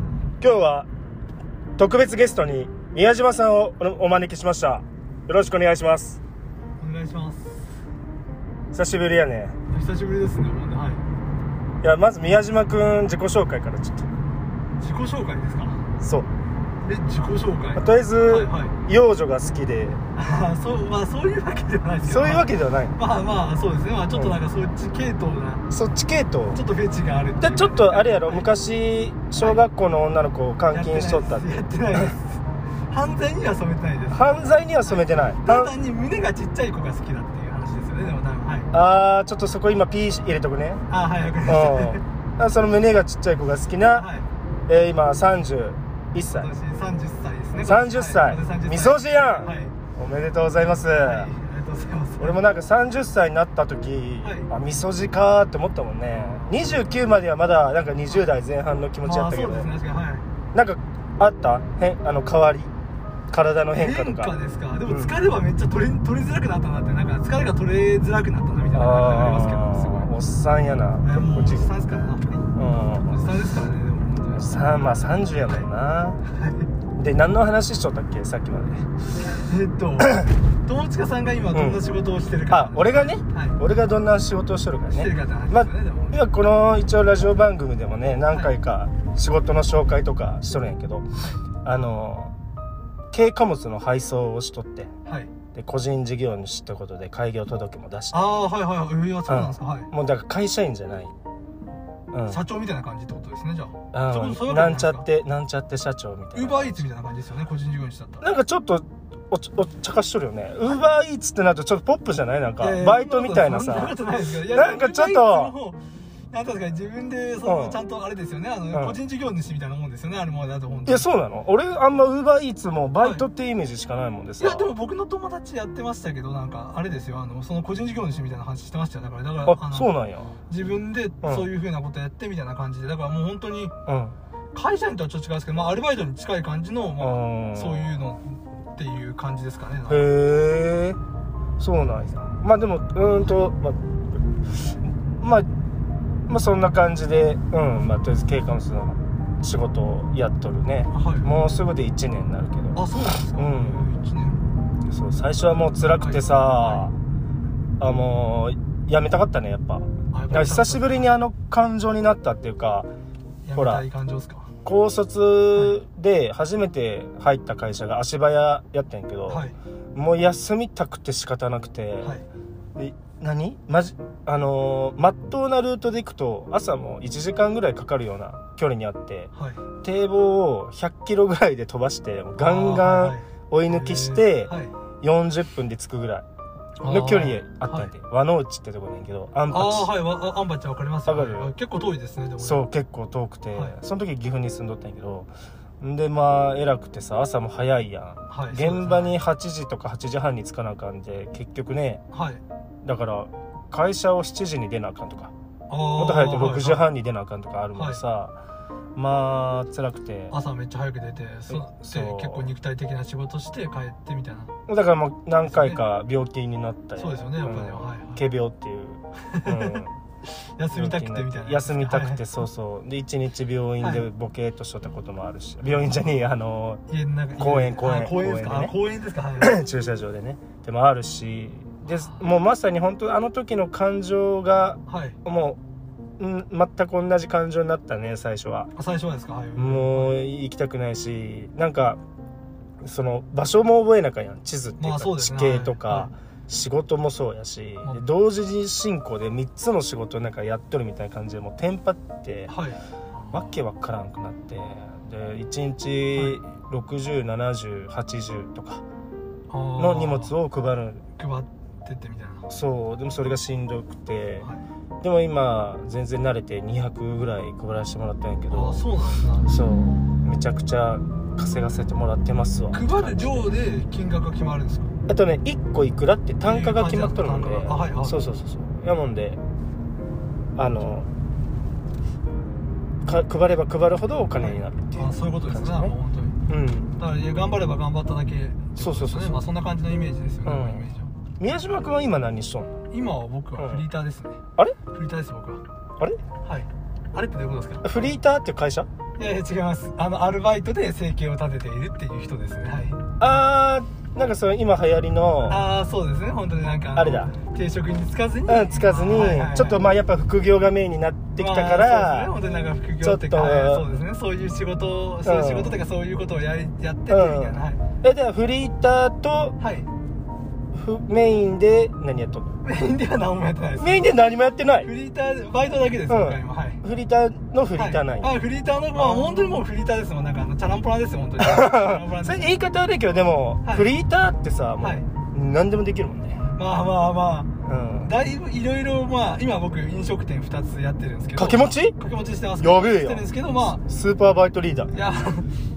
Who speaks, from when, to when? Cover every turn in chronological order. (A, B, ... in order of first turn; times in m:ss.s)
0:00.4-0:00.9 A
0:01.8-0:06.2 A
0:06.8-0:07.8 B
0:08.7-0:09.6 A
0:09.7-0:11.0 B
0:11.8-0:14.1 A
0:14.8-0:15.9 B
0:16.0-0:16.3 A
0:16.8-0:18.8 B
0:17.8-0:20.0 A
0:20.2-0:25.6 B
0:22.0-0:23.0 A
0:24.1-0:24.4 A
0:25.7-0:26.6 A
0:26.5-0:28.5 B
0:27.4-0:32.1 A
0:29.4-0:29.6 B
0:30.7-0:38.7 B
0:34.1-0:35.7 A
0:38.7-0:40.8 A
0:40.9-0:42.0 B
0:41.4-0:44.1 A
0:44.0-0:44.3 B
0:44.7-0:46.5 A
0:46.3-0:49.8 B
0:47.6-0:51.3 A
0:51.0-0:52.4 B
0:52.2-0:59.7 A
0:54.2-0:54.5 B
0:56.2-0:56.5 B
0:59.0-1:00.2 B
1:00.5-1:02.7 A
1:03.3-1:04.3 A
1:03.7-1:10.1 B
1:04.9-1:05.2 A
1:08.7-1:11.7 A
1:11.0-1:15.7 B
1:12.6-1:13.2 A
1:14.4-1:16.2 A
1:16.2-1:16.7 B
1:17.0-1:18.9 A
1:19.2-1:23.6 B
1:21.5-1:21.8 A
1:22.5-1:31.1 A
1:24.9-1:26.2 B
1:31.6-1:32.3 A
1:33.1-1:34.9 A
1:35.1-1:35.3 B
1:35.5-1:38.3 A
1:38.1-1:39.9 B
1:39.3-1:41.1 A
1:42.1-1:42.4 A
1:42.3-1:45.0 B
1:43.9-1:46.8 A
1:46.3-1:48.3 B
1:48.2-1:55.6 A
1:52.6-1:55.8 B
1:56.3-2:01.1 B
1:57.4-1:57.8 A
1:58.7-1:59.0 A
2:00.9-2:04.7 A
2:03.0-2:03.3 B
2:04.4-2:09.9 B
2:09.4-2:10.3 A
2:10.5-2:13.7 B
2:11.2-2:11.5 A
2:13.9-2:14.2 A
2:14.5-2:20.1 B
2:17.0-2:18.0 A
2:19.9-2:21.0 A
2:21.6-2:23.8 A
2:24.5-2:25.5 A
2:26.3-2:33.9 A
2:30.9-2:31.3 B
2:32.7-2:34.4 B
2:34.9-2:36.9 A
2:35.8-2:36.9 B
2:37.8-2:42.9 A
2:40.1-2:41.1 B
2:43.4-2:44.5 B
2:43.6-2:43.8 A
2:44.6-2:52.2 A
2:45.6-2:45.8 B
2:49.3-2:49.6 B
2:52.8-2:59.3 A
2:59.3-2:59.6 B
2:59.8-3:06.3 A
3:02.4-3:04.7 B
3:06.8-3:07.9 B
3:06.8-3:09.9 A
3:09.5-3:12.6 B
3:11.1-3:11.5 A
3:12.4-3:22.0 A
3:18.3-3:19.2 B
3:22.1-3:22.4 B
3:22.8-3:25.3 A
3:25.7-3:26.9 B
3:26.0-3:28.4 A
3:27.8-3:28.0 B
3:29.0-3:30.3 A
3:30.3-3:34.5 B
3:31.5-3:32.5 A
3:34.7-3:39.9 A
3:35.5-3:35.8 B
3:37.0-3:38.2 B
3:39.3-3:42.2 B
3:40.7-3:46.8 A
3:43.8-3:44.1 B
3:46.9-3:49.6 B
3:47.4-3:48.8 A
3:49.4-3:55.6 A
3:51.8-3:52.2 B
3:54.9-3:55.2 B
3:56.2-3:58.7 A
3:58.8-4:00.2 B
3:59.6-4:02.0 A
4:02.8-4:12.5 A
4:04.8-4:06.1 B
4:12.5-4:13.4 B
4:13.3-4:18.8 A
4:16.1-4:16.4 B
4:19.5-4:20.3 B
4:19.8-4:21.0 A
4:21.2-4:22.5 B
4:22.5-4:24.5 A
4:25.0-4:28.9 A
4:28.5-4:29.5 B
4:29.5-4:33.6 A
4:32.7-4:34.9 B
4:35.1-4:39.4 A
4:36.4-4:38.2 B
4:40.6-4:41.1 A
4:43.0-4:46.0 A
4:44.4-4:46.4 B
4:46.5-4:47.0 A
4:47.0-4:51.1 B
4:48.8-4:49.4 A
4:50.4-4:50.9 A
4:51.4-4:52.8 A
4:52.9-4:55.6 B
4:53.6-4:53.8 A
4:56.4-4:57.9 B
4:57.8-4:58.9 A
4:59.2-5:03.1 B
5:03.2-5:05.7 A
5:05.5-5:09.8 B
5:06.9-5:07.3 A
5:08.5-5:12.4 A
5:11.4-5:17.8 B
5:13.0-5:13.9 A
5:15.2-5:15.8 A
5:17.1-5:19.6 A
5:19.6-5:19.9 B
5:20.7-5:22.6 A
5:22.6-5:24.0 B
5:23.8-5:24.9 A
5:24.8-5:26.8 B
5:26.1-5:28.3 A
5:27.8-5:32.5 B
5:28.9-5:29.6 A
5:31.4-5:36.5 A
5:36.6-5:37.5 B
5:37.6-5:38.1 A
5:38.0-5:43.8 B
5:41.4-5:42.0 A
5:42.6-5:44.9 A
5:44.9-5:45.5 B